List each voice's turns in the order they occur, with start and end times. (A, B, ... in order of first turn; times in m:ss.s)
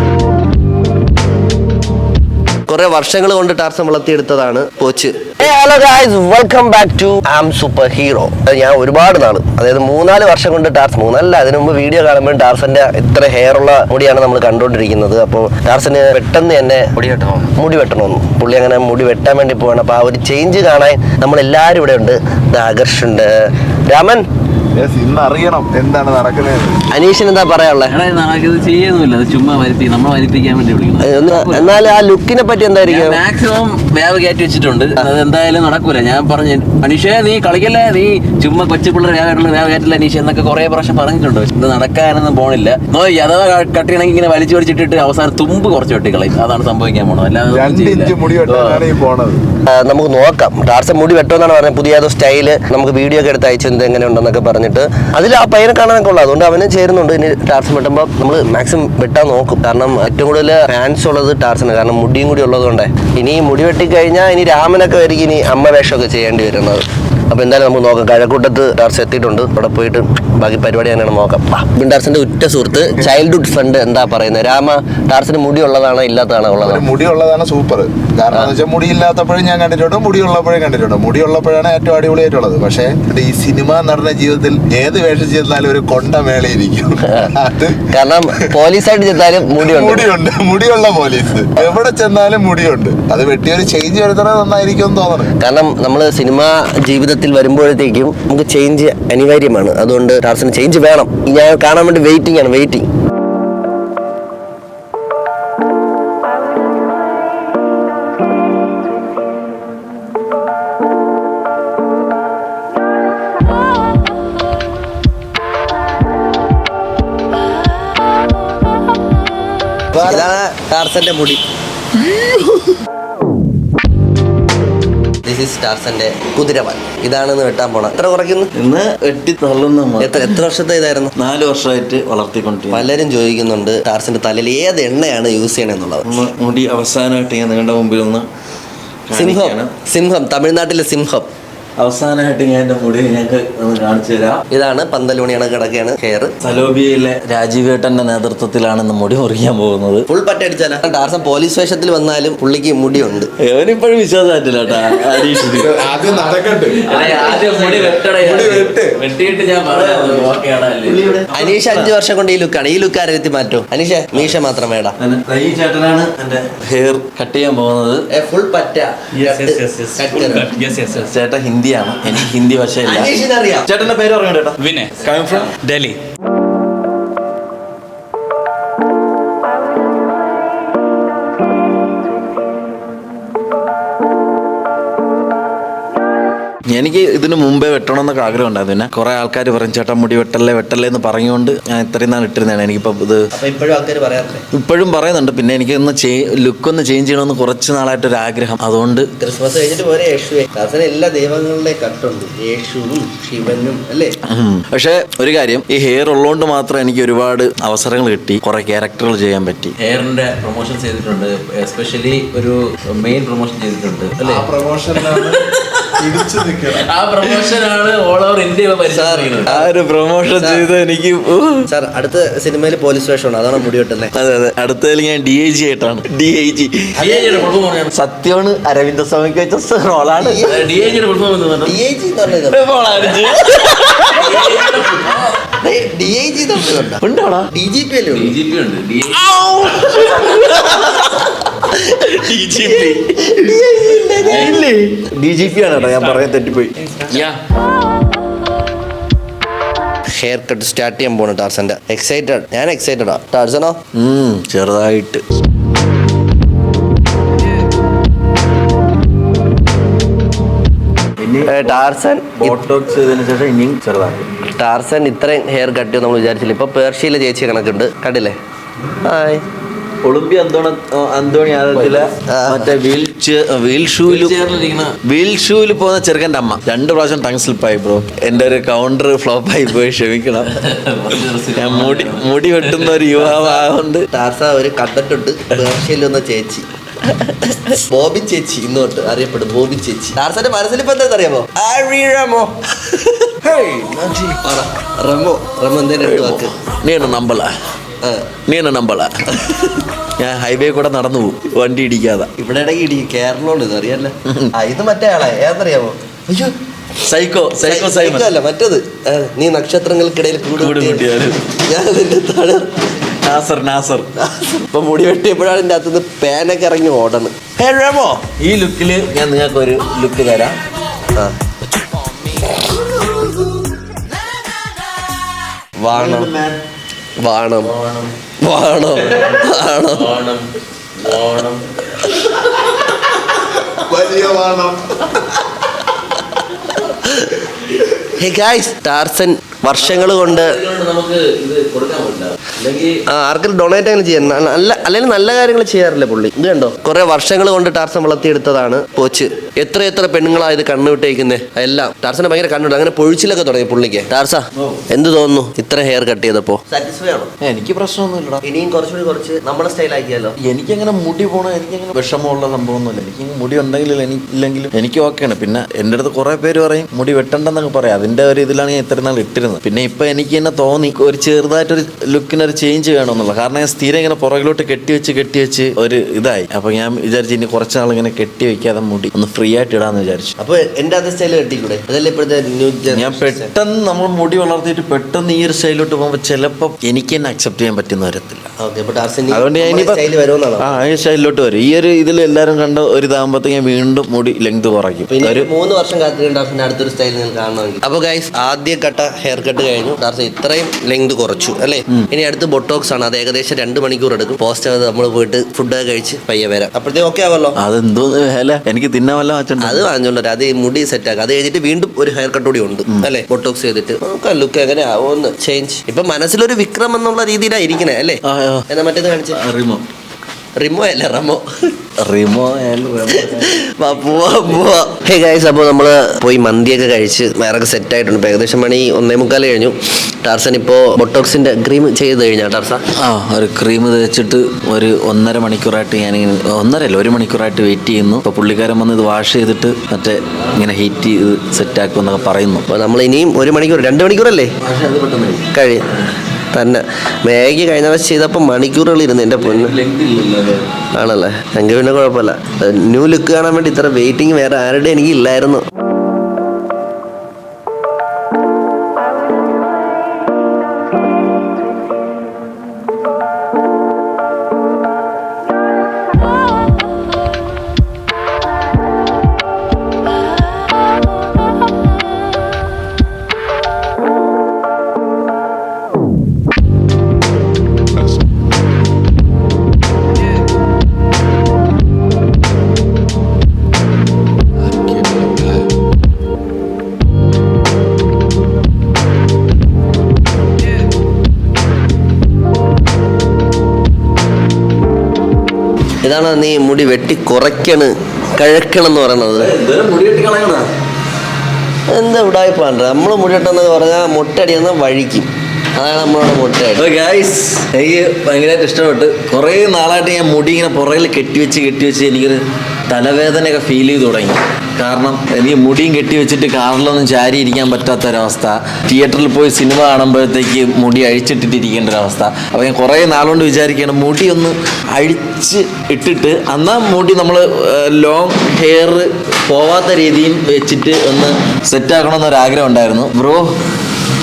0:02.7-0:17.0 A
0:17.0-0:17.4 B
0:17.5-0:23.3 A
0:23.9-0:24.2 A
0:24.8-0:26.8 C
0:26.9-0:28.0 A
0:27.9-0:31.8 D
0:31.0-0:33.2 A
0:32.8-0:48.8 D
0:47.5-0:49.4 C
0:49.7-1:16.9 A
1:16.6-1:27.9 C
1:27.1-1:27.4 A
1:27.9-1:30.1 A
1:29.6-1:35.3 C
1:35.4-1:42.8 A
1:59.9-2:01.4 A
2:05.2-2:08.5 A
2:08.5-2:10.4 B
2:10.0-2:11.1 A
2:11.2-2:12.9 B
2:12.7-2:16.1 A
2:16.0-2:18.3 B
2:19.1-2:19.7 B
2:19.1-2:21.3 A
2:21.8-2:24.4 B
2:24.5-2:26.4 A
2:26.4-2:30.1 B
2:30.1-2:33.3 A
2:33.4-2:35.8 B
2:35.5-2:38.9 C
2:36.8-2:41.2 D
2:36.8-2:37.3 B
2:39.6-2:41.9 B
2:41.3-2:45.0 A
2:45.0-2:48.1 B
2:48.1-2:50.6 A
2:49.2-2:50.9 E
2:50.8-2:55.6 B
2:52.8-2:53.7 A
2:54.6-2:56.0 E
3:06.7-3:13.3 B
3:13.3-3:14.4 A
3:14.5-3:19.1 B
3:19.2-3:24.1 A
3:24.3-3:29.8 B
3:29.8-3:35.3 D
3:34.2-3:35.4 C
3:36.0-3:37.4 C
3:36.7-3:39.5 D
3:38.9-3:39.7 A
3:39.5-3:41.7 B
3:40.3-3:40.6 A
3:41.7-3:44.1 A
3:44.2-3:47.1 B
3:47.0-3:47.9 D
3:47.0-3:47.5 A
3:47.9-3:50.5 B
3:50.2-3:51.0 A
3:50.4-3:51.8 D
3:51.6-3:52.6 A
3:52.4-3:54.8 B
3:53.0-3:53.3 D
3:54.1-3:55.4 D
3:55.6-3:58.4 A
3:57.0-3:57.5 B
3:58.1-4:00.1 D
3:59.1-4:07.3 B
4:02.4-4:04.6 A
4:07.1-4:07.4 D
4:10.1-4:13.8 A
4:14.0-4:15.2 B
4:21.2-4:21.8 B
4:21.4-4:22.6 A
4:22.4-4:24.3 B
4:24.6-4:28.4 A
4:29.0-4:29.4 A
4:30.0-4:34.4 B
4:32.2-4:32.7 A
4:34.1-4:35.0 D
4:35.0-4:40.5 B
4:40.6-4:43.4 D
4:41.2-4:44.1 B
4:43.2-4:46.7 A
4:47.4-4:52.6 A
4:53.4-4:54.4 B
4:54.4-4:56.5 A
4:56.0-4:57.6 B
4:58.0-4:58.3 A
4:58.5-5:02.3 B
5:02.4-5:06.5 A
5:07.0-5:08.3 B
5:07.6-5:11.1 A
5:10.5-5:11.4 B
5:11.6-5:13.2 A
5:13.2-5:14.1 B
5:14.2-5:17.4 A
5:17.6-5:20.6 B
5:25.8-5:26.3 A
5:25.9-5:26.6 B
5:27.2-5:27.7 A
5:27.6-5:28.1 B
5:28.4-5:30.1 A
5:29.9-5:32.0 D
5:33.8-5:35.2 C
5:36.9-5:37.5 A
5:38.1-5:40.6 A
5:39.8-5:43.0 D
5:43.1-5:57.3 A
5:54.6-5:54.8 B
5:57.4-5:58.4 B
5:58.4-6:00.4 A
6:00.4-6:20.3 B
6:20.4-6:23.5 A
6:22.9-6:28.5 B
6:28.6-6:30.8 A
6:29.3-6:30.0 B
6:30.6-6:35.5 B
6:35.1-6:47.6 A
6:47.6-6:49.8 B
6:49.6-6:59.4 A
6:58.2-6:58.7 B
6:59.3-6:59.9 B
7:00.6-7:01.5 A
7:02.0-7:04.6 B
7:03.1-7:12.8 A
7:13.0-7:22.7 B
7:22.7-7:24.5 A
7:24.6-7:25.5 B
7:25.5-7:25.9 A
7:26.5-7:29.8 A
7:29.4-7:30.6 B
7:31.0-7:35.6 A
8:05.0-8:05.5 B
8:16.0-8:19.5 A
8:19.4-8:20.7 B
8:21.9-8:26.9 A
8:26.8-8:53.5 B